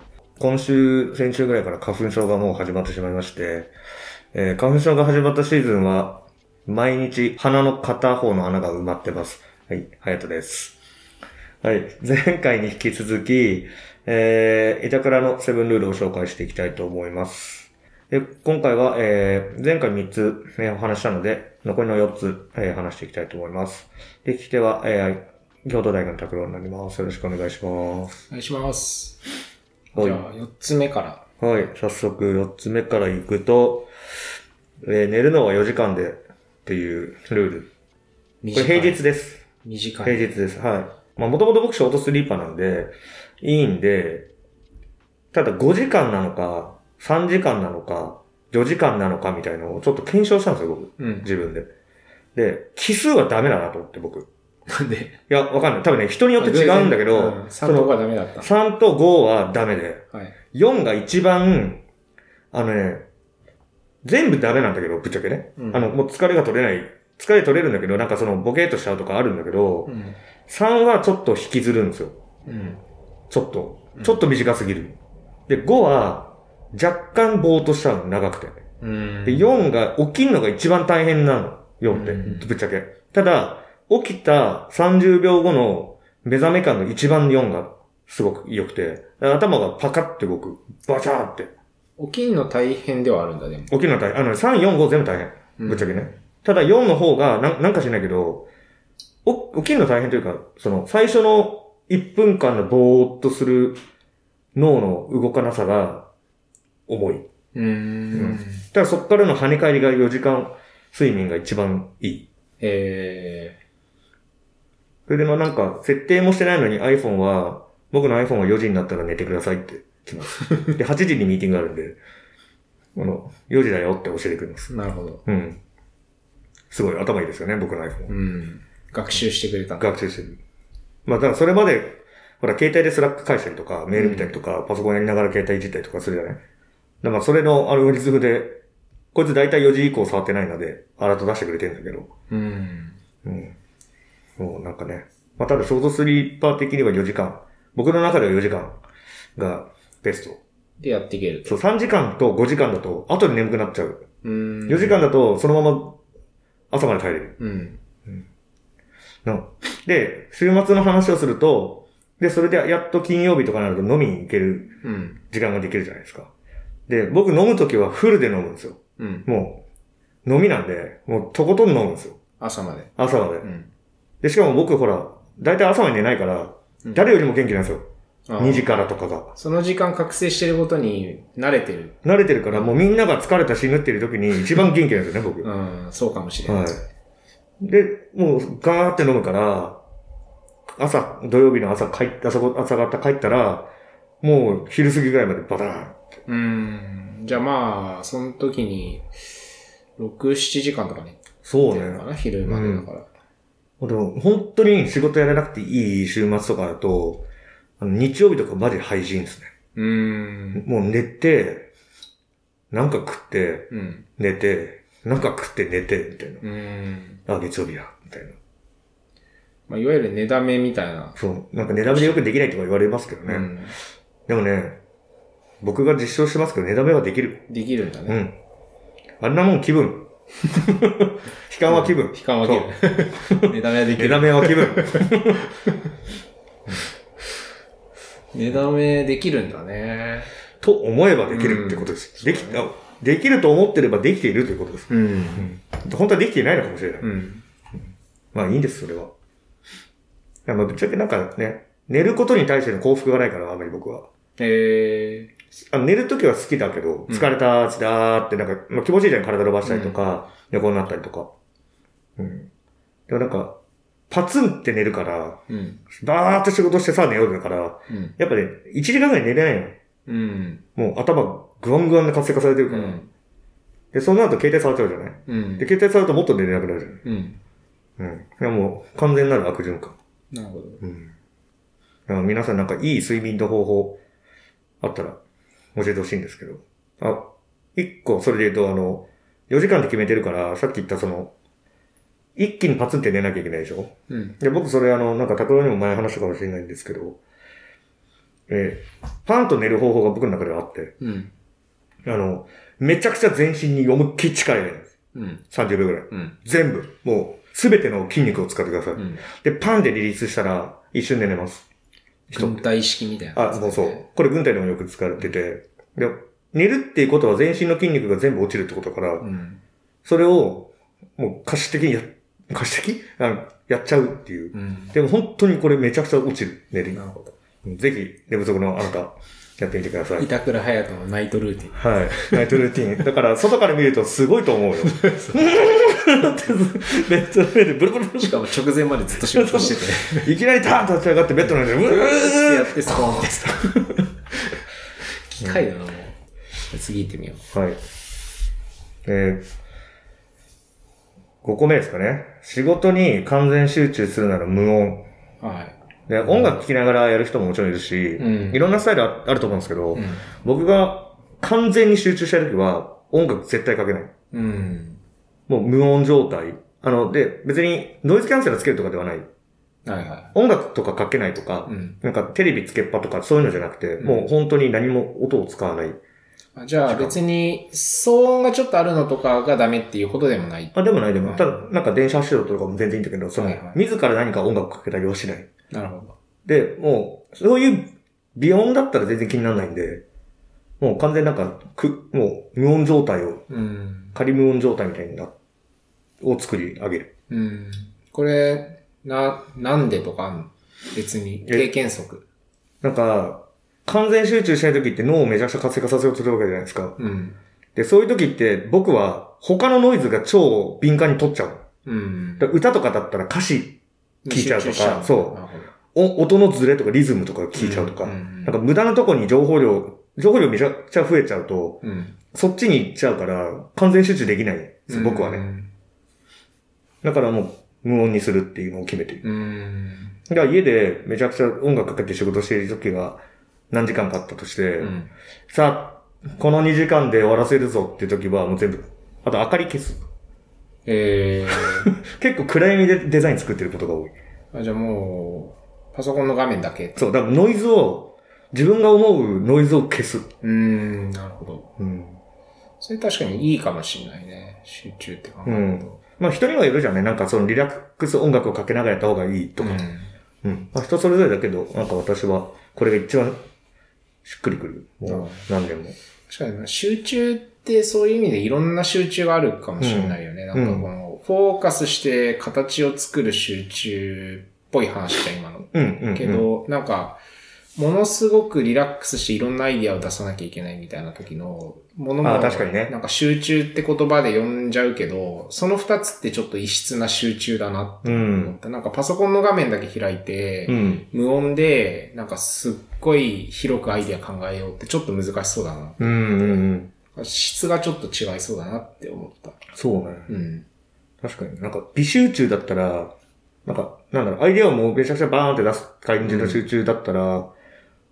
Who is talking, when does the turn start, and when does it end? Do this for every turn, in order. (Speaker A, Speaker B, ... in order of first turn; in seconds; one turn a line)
Speaker A: 0.4-3.7
Speaker A: 4.3-10.8
Speaker A: 11.6-28.2
Speaker B: 28.3-29.2
Speaker A: 29.9-30.2
Speaker B: 30.0-31.2
Speaker A: 31.4-33.9
Speaker A: 34.8-37.7
Speaker B: 38.4-39.0
Speaker A: 38.5-39.5
Speaker B: 39.6-40.3
Speaker A: 40.0-44.3
Speaker A: 45.3-51.7
Speaker B: 51.0-51.3
Speaker A: 52.3-54.3
Speaker B: 54.7-55.1
Speaker A: 55.3-60.0
Speaker B: 56.4-58.5
Speaker A: 60.5-61.8
Speaker A: 62.5-63.0
Speaker A: 64.0-69.9
Speaker B: 65.6-66.0
Speaker B: 69.9-70.2
Speaker A: 70.5-72.2
Speaker B: 72.5-72.8
Speaker A: 73.3-75.0
Speaker B: 74.0-74.2
Speaker A: 75.5-78.6
Speaker B: 78.8-79.5
Speaker A: 79.3-91.5
Speaker B: 81.9-82.5
Speaker B: 92.0-93.7
Speaker A: 93.7-98.5
Speaker B: 95.6-96.1
Speaker A: 99.2-103.8
Speaker A: 104.5-106.1
Speaker A: 106.9-107.3
Speaker B: 107.5-108.7
Speaker A: 108.1-112.3
Speaker B: 112.6-113.6
Speaker A: 115.1-122.0
Speaker A: 123.0-124.7
Speaker B: 124.7-125.2
Speaker A: 125.2-125.6
Speaker A: 126.7-128.1
Speaker B: 128.1-129.9
Speaker A: 129.8-130.4
Speaker A: 131.1-136.4
Speaker B: 133.9-134.4
Speaker A: 137.0-138.6
Speaker A: 139.1-142.1
Speaker B: 142.3-143.0
Speaker A: 143.2-143.6
Speaker A: 144.4-148.8
Speaker A: 149.4-150.4
Speaker B: 150.8-151.6
Speaker A: 151.4-154.1
Speaker B: 154.2-155.0
Speaker A: 154.7-156.0
Speaker A: 156.7-157.4
Speaker B: 157.4-157.8
Speaker A: 159.2-164.7
Speaker B: 164.8-165.2
Speaker A: 165.3-166.3
Speaker A: 166.9-169.6
Speaker B: 169.0-169.3
Speaker A: 170.2-172.2
Speaker B: 172.4-172.9
Speaker A: 173.0-173.5
Speaker B: 173.4-173.7
Speaker A: 174.2-177.8
Speaker B: 176.8-177.2
Speaker B: 178.3-182.0
Speaker A: 178.4-179.3
Speaker A: 182.0-185.5
Speaker B: 185.4-186.7
Speaker A: 186.5-186.8
Speaker A: 187.6-189.8
Speaker A: 190.8-193.7
Speaker A: 194.2-196.0
Speaker B: 196.3-199.1
Speaker B: 200.0-203.1
Speaker A: 201.4-202.9
Speaker A: 203.8-207.3
Speaker A: 207.8-209.5
Speaker B: 209.8-210.7
Speaker A: 210.6-211.7
Speaker A: 212.7-216.4
Speaker B: 213.7-214.1
Speaker B: 216.4-217.2
Speaker A: 217.3-218.4
Speaker B: 219.7-221.2
Speaker A: 221.2-223.5
Speaker B: 221.9-222.2
Speaker B: 223.3-223.8
Speaker A: 224.3-224.8
Speaker A: 225.6-227.5
Speaker B: 227.5-228.2
Speaker A: 228.1-228.4
Speaker A: 229.2-233.3
Speaker B: 231.7-235.8
Speaker A: 233.9-235.4
Speaker B: 238.3-240.3
Speaker A: 240.6-247.1
Speaker B: 241.3-242.7
Speaker B: 244.9-245.5
Speaker B: 247.0-247.4
Speaker A: 248.3-249.1
Speaker A: 250.4-254.1
Speaker B: 254.4-255.3
Speaker A: 255.7-261.3
Speaker B: 259.6-260.0
Speaker A: 262.2-262.5
Speaker A: 263.1-263.6
Speaker A: 264.1-265.4
Speaker B: 265.5-265.8
Speaker A: 266.0-269.8
Speaker B: 267.9-268.2
Speaker B: 270.1-270.6
Speaker A: 270.8-273.0
Speaker B: 272.7-273.1
Speaker A: 273.9-277.0
Speaker B: 275.3-275.7
Speaker B: 277.1-277.4
Speaker A: 278.0-279.9
Speaker B: 280.3-280.8
Speaker A: 280.8-281.1
Speaker A: 282.1-284.0
Speaker A: 284.8-285.2
Speaker A: 285.8-291.3
Speaker A: 292.4-297.2
Speaker B: 294.1-294.4
Speaker A: 298.5-300.9
Speaker B: 301.0-301.3
Speaker A: 302.1-304.9
Speaker B: 305.1-305.4
Speaker A: 305.5-311.7
Speaker B: 308.9-309.2
Speaker A: 312.3-312.6
Speaker B: 312.3-314.1
Speaker A: 313.3-319.2
Speaker B: 319.2-319.6
Speaker A: 320.1-327.0
Speaker B: 324.5-324.9
Speaker B: 326.9-327.4
Speaker A: 327.6-330.3
Speaker B: 330.2-332.6
Speaker A: 331.8-338.6
Speaker B: 334.9-335.4
Speaker B: 338.2-340.3
Speaker A: 339.2-343.7
Speaker B: 341.8-343.8
Speaker B: 345.3-346.2
Speaker B: 346.7-347.4
Speaker A: 347.5-347.8
Speaker A: 349.1-349.4
Speaker A: 351.4-355.1
Speaker B: 355.4-356.5
Speaker A: 356.1-364.1
Speaker B: 358.2-358.6
Speaker B: 359.9-360.3
Speaker B: 364.3-365.0
Speaker A: 365.5-369.3
Speaker B: 369.9-370.3
Speaker A: 370.4-376.0
Speaker B: 371.7-372.0
Speaker B: 374.0-374.3
Speaker B: 376.6-381.6
Speaker A: 376.9-377.2
Speaker A: 380.8-385.5
Speaker B: 383.4-383.8
Speaker B: 385.7-386.1
Speaker A: 386.4-390.0
Speaker A: 390.8-393.5
Speaker B: 393.5-394.2
Speaker A: 394.1-395.3
Speaker A: 396.2-397.1
Speaker B: 397.3-402.2
Speaker A: 401.4-401.7
Speaker A: 402.8-406.9
Speaker B: 407.0-407.4
Speaker A: 407.8-411.6
Speaker B: 411.9-412.6
Speaker A: 412.4-415.4
Speaker B: 414.2-415.7
Speaker A: 415.9-421.8
Speaker B: 417.6-418.6
Speaker B: 421.8-422.2
Speaker A: 422.3-425.4
Speaker B: 424.9-425.7
Speaker A: 427.0-429.2
Speaker B: 429.2-430.2
Speaker A: 430.3-434.9
Speaker B: 434.8-435.1
Speaker A: 435.5-440.0
Speaker B: 440.9-441.9
Speaker A: 441.9-444.1
Speaker B: 444.5-447.1
Speaker A: 446.9-450.3
Speaker B: 450.4-451.7
Speaker A: 451.8-452.2
Speaker B: 452.8-456.0
Speaker A: 455.4-459.8
Speaker B: 459.6-460.1
Speaker A: 460.4-463.4
Speaker A: 464.2-465.9
Speaker B: 465.1-465.5
Speaker B: 466.3-477.2
Speaker A: 469.8-470.9
Speaker A: 475.7-476.5
Speaker B: 477.8-499.6
Speaker A: 482.2-482.9
Speaker A: 488.1-488.6
Speaker A: 490.7-491.1
Speaker A: 496.0-496.9
Speaker A: 499.8-500.3
Speaker B: 500.3-500.6
Speaker A: 501.2-503.1
Speaker A: 503.6-507.5
Speaker B: 506.2-506.6